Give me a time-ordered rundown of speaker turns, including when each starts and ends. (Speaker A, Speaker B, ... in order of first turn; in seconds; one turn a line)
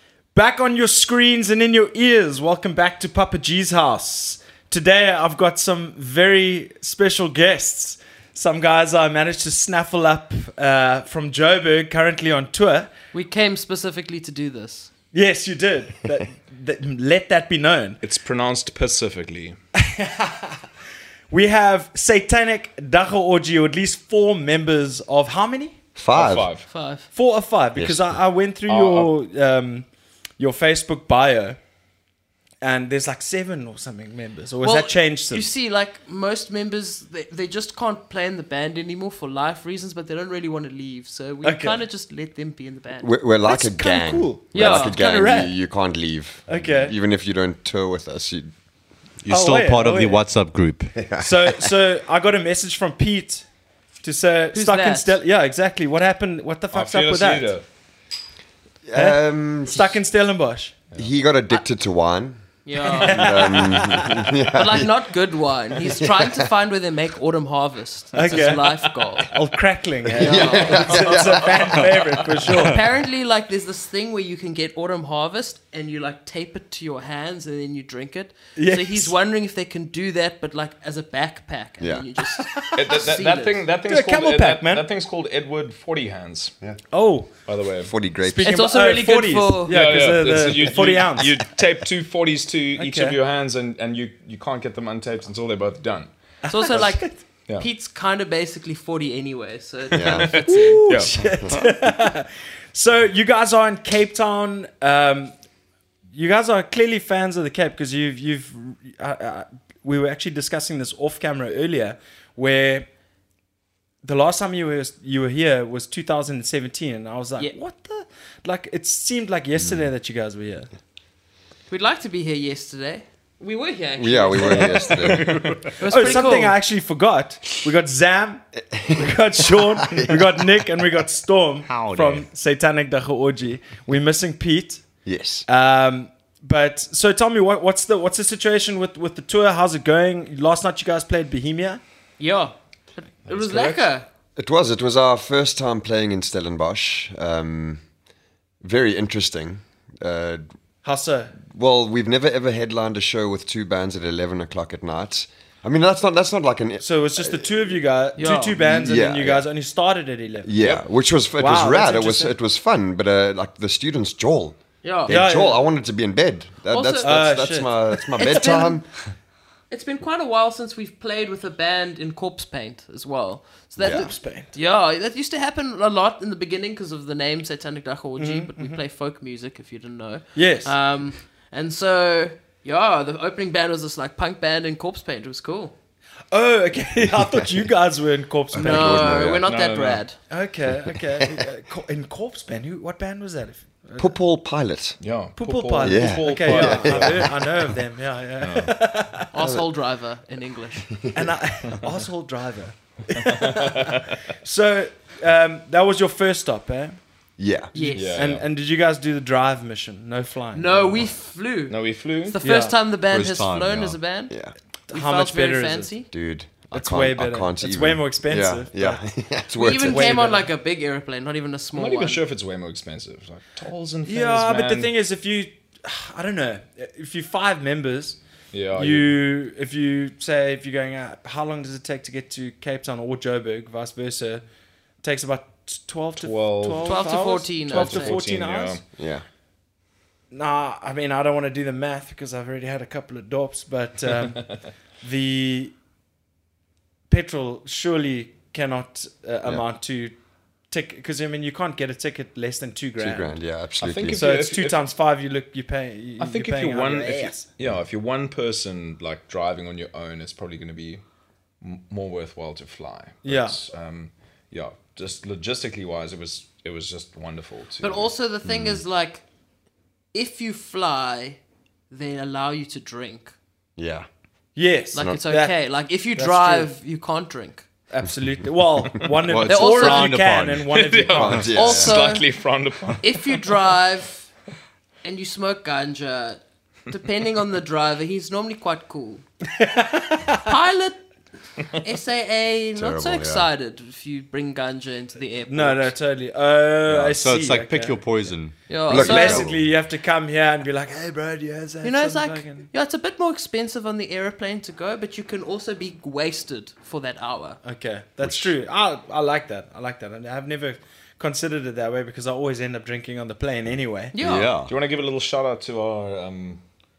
Speaker A: 0.3-12.9
Speaker B: 13.1-14.9
Speaker A: 15.1-18.0
Speaker C: 18.0-19.6
Speaker A: 19.8-20.6
Speaker A: 21.3-25.8
Speaker D: 25.9-26.5
Speaker C: 26.1-26.6
Speaker B: 26.7-27.1
Speaker A: 27.1-29.9
Speaker D: 27.7-28.1
Speaker C: 28.7-29.1
Speaker A: 30.4-31.6
Speaker A: 32.6-35.5
Speaker B: 34.6-43.1
Speaker A: 41.4-41.8
Speaker D: 43.0-48.5
Speaker A: 43.4-45.5
Speaker B: 44.5-45.0
Speaker A: 46.5-47.0
Speaker E: 49.2-51.1
Speaker A: 49.3-50.2
Speaker D: 51.0-51.6
Speaker A: 51.1-53.4
Speaker A: 54.0-57.5
Speaker B: 54.5-55.2
Speaker C: 56.7-57.6
Speaker D: 58.9-60.0
Speaker A: 59.0-60.8
Speaker D: 61.0-65.1
Speaker B: 62.6-63.7
Speaker A: 62.9-64.2
Speaker B: 64.5-69.3
Speaker D: 65.8-66.5
Speaker A: 68.1-68.6
Speaker C: 68.3-68.9
Speaker A: 69.3-72.8
Speaker D: 70.1-71.8
Speaker B: 70.2-71.7
Speaker B: 72.6-83.6
Speaker A: 78.5-79.1
Speaker D: 81.8-82.0
Speaker A: 82.3-82.8
Speaker C: 82.7-86.5
Speaker A: 83.9-84.8
Speaker A: 86.9-87.3
Speaker C: 87.5-87.9
Speaker D: 87.8-88.6
Speaker A: 88.2-91.4
Speaker B: 88.4-89.9
Speaker C: 89.7-96.1
Speaker A: 92.8-93.2
Speaker A: 96.4-97.2
Speaker B: 96.5-100.8
Speaker D: 99.9-100.4
Speaker C: 100.0-101.1
Speaker A: 100.4-105.3
Speaker A: 106.1-112.9
Speaker A: 114.0-120.7
Speaker B: 121.7-125.0
Speaker D: 124.0-125.5
Speaker C: 125.0-125.7
Speaker B: 125.7-126.6
Speaker A: 125.8-134.9
Speaker D: 128.7-130.4
Speaker E: 131.7-132.3
Speaker D: 135.0-135.4
Speaker A: 135.5-141.8
Speaker B: 142.2-144.0
Speaker C: 143.2-143.9
Speaker D: 144.4-147.8
Speaker D: 148.6-150.4
Speaker A: 150.8-151.3
Speaker D: 151.4-157.8
Speaker A: 156.8-160.8
Speaker B: 158.2-158.6
Speaker D: 158.6-159.5
Speaker D: 160.4-168.8
Speaker A: 161.4-162.3
Speaker B: 164.8-165.2
Speaker A: 165.1-165.7
Speaker B: 166.7-167.2
Speaker A: 167.0-168.8
Speaker B: 168.2-168.8
Speaker B: 169.7-185.7
Speaker D: 173.8-174.1
Speaker A: 173.8-174.5
Speaker A: 178.2-178.8
Speaker A: 180.3-180.8
Speaker A: 186.3-189.2
Speaker D: 188.5-189.4
Speaker B: 188.6-190.2
Speaker C: 189.4-190.0
Speaker A: 190.3-194.1
Speaker D: 194.0-195.0
Speaker C: 195.0-197.3
Speaker A: 195.4-199.3
Speaker D: 195.8-197.6
Speaker C: 198.4-198.7
Speaker B: 199.3-200.9
Speaker D: 200.9-201.3
Speaker A: 201.1-207.0
Speaker C: 203.3-204.0
Speaker D: 207.4-207.7
Speaker A: 207.7-211.1
Speaker B: 207.7-208.2
Speaker C: 207.9-208.4
Speaker B: 210.5-214.3
Speaker C: 211.7-212.4
Speaker A: 212.4-212.8
Speaker E: 213.1-214.0
Speaker A: 214.9-215.9
Speaker B: 214.9-216.1
Speaker D: 216.1-220.2
Speaker A: 216.7-219.0
Speaker B: 219.6-222.2
Speaker A: 219.9-220.5
Speaker C: 221.7-224.9
Speaker A: 224.1-228.2
Speaker C: 228.5-229.1
Speaker A: 228.7-234.4
Speaker A: 235.0-238.8
Speaker C: 236.2-238.8
Speaker B: 236.8-238.2
Speaker D: 239.0-239.2
Speaker A: 240.3-245.7
Speaker A: 247.1-250.1
Speaker A: 250.7-253.3
Speaker D: 253.0-254.2
Speaker C: 253.8-254.8
Speaker A: 254.1-257.5
Speaker C: 256.2-261.0
Speaker C: 261.6-268.1
Speaker A: 263.2-263.6
Speaker B: 267.8-269.2
Speaker D: 268.5-268.8
Speaker B: 270.1-273.3
Speaker D: 273.8-274.1
Speaker A: 274.5-275.5
Speaker B: 274.9-277.6
Speaker A: 276.1-276.7
Speaker A: 277.9-281.5
Speaker E: 279.2-280.7
Speaker B: 279.4-280.2
Speaker C: 280.6-283.5
Speaker D: 281.1-282.0
Speaker B: 281.5-282.3
Speaker B: 283.0-284.3
Speaker B: 285.0-289.2
Speaker A: 289.6-290.4
Speaker B: 290.4-291.0
Speaker B: 291.8-295.9
Speaker D: 292.8-293.5
Speaker A: 295.5-298.2
Speaker E: 296.9-298.5
Speaker B: 298.7-299.5
Speaker D: 298.9-299.6
Speaker A: 298.9-302.7
Speaker B: 301.8-307.6
Speaker A: 307.6-314.1
Speaker D: 308.2-308.5
Speaker B: 314.1-314.5
Speaker E: 314.2-314.7
Speaker C: 314.7-316.6